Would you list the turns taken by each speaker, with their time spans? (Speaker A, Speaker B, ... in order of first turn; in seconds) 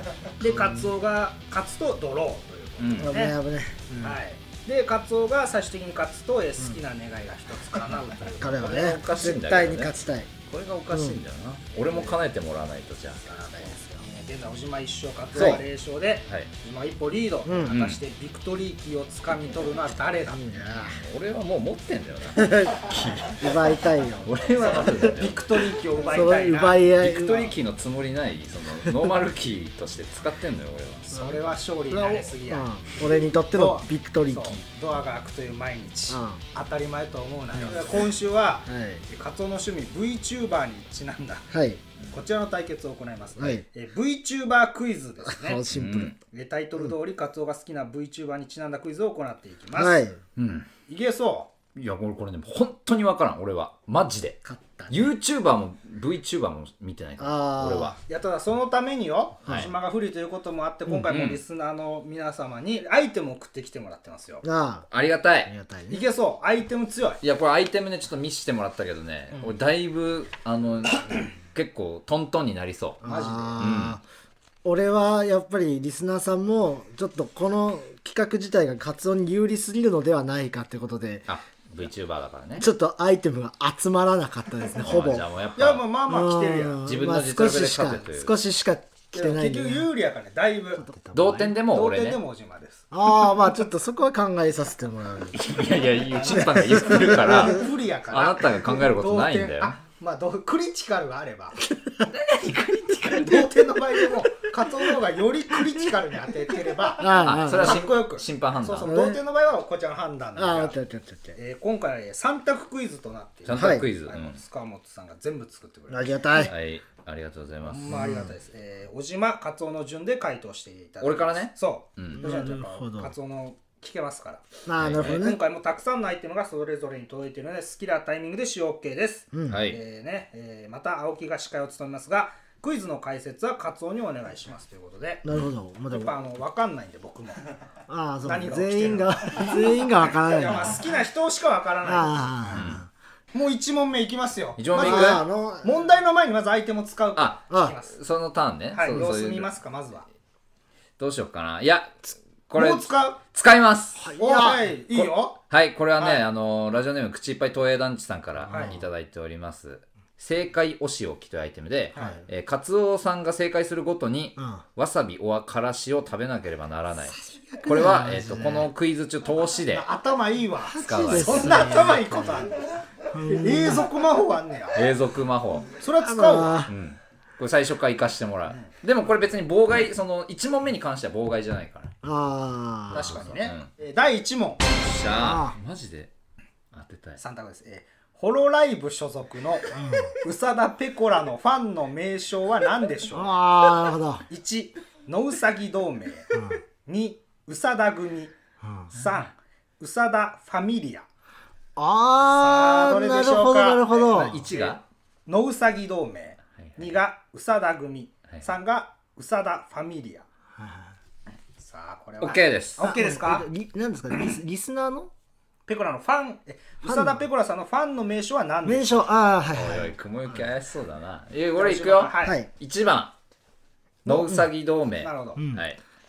Speaker A: 0.4-3.4, 3.9-8.8, 11.7-12.2, 13.2-20.6, 24.5-27.6, 31.1-32.7, 33.5-41.5, 42.1-45.6, 46.3-50.0, 50.9-51.5, 58.1-64.4, 65.9-67.2, 73.0-73.8, 85.6-86.9, 89.1-90.9, 91.6-92.9, 96.8-101.7, 103.0-110.8, 111.3-116.4, 117.7-135.2, 135.9-137.4, 138.2-142.8, 143.3-147.9, 148.7-150.1, 152.6-153.2, 154.2-155.4, 156.0-156.3, 158.5-158.8, 161.9-162.2, 169.7-174.8, 175.7-176.7, 182.9-184.8, 187.2-193.4, 194.3-198.3, 198.9-201.1, 202.3-210.2, 211.6-213.5, 215.7-219.1, 221.5-222.4, 225.0-225.4
Speaker B: 0.4-0.9, 3.0-4.2, 8.4-10.3, 10.9-11.2, 15.3-15.6, 17.4-17.7, 20.3-21.0, 22.4-25.1, 26.1-27.5, 31.9-34.6, 36.1-36.4, 37.6-38.0, 38.7-39.0, 41.5-41.8, 43.4-43.6, 45.2-46.1, 49.7-50.2, 54.4-55.1, 57.2-58.0, 64.4-64.9, 65.5-66.0, 73.0-74.0, 74.6-81.3, 82.6-85.3, 86.1-89.9, 90.8-91.6, 92.9-95.4, 96.3-97.5, 101.7-102.1, 103.1-104.3, 106.9-107.9, 108.8-109.2, 110.4-111.4, 113.5-113.9, 115.9-116.5, 117.9-118.3, 122.1-123.1, 124.7-125.4, 129.3-129.6, 135.2-136.1, 137.9-140.8, 141.8-142.9, 144.8-145.8, 147.5-147.8, 153.9-154.7, 158.5-158.8, 161.9-162.2, 164.4-164.6, 167.2-168.7, 170.6-172.5, 173.1-173.9, 176.0-176.7, 182.0-183.2, 185.2-185.6, 189.7-190.2, 193.1-194.3, 196.3-196.6, 198.6-198.9, 201.8-204.4, 210.6-210.9, 212.8-215.1, 216.8-217.2, 218.6-219.9, 222.2-222.5, 224.1-224.5, 225.4-225.6
Speaker C: 2.8-3.2, 8.4-9.9, 10.5-13.2, 15.4-15.6, 17.7-18.0, 20.6-23.4, 24.2-25.6, 27.0-31.1, 45.7-46.2, 50.4-50.7, 51.8-58.0, 59.5-59.7, 61.1-61.4, 64.9-65.5, 67.2-73.0, 73.6-74.0, 81.3-82.7, 84.8-85.8, 86.8-88.3, 91.1-92.2, 95.3-99.8, 102.1-103.4, 107.2-108.9, 113.5-114.4, 116.4-118.0, 121.0-122.3, 124.8-125.3, 129.5-129.8, 142.6-142.8, 144.6-145.2, 147.2-149.5, 151.0-154.0, 154.9-169.9, 170.8-171.8, 174.7-175.7, 176.7-181.9, 182.9-183.7, 184.8-186.1, 186.7-187.2, 204.2-204.8, 206.6-207.0, 212.2-212.8, 219.5-223.1, 224.1-225.8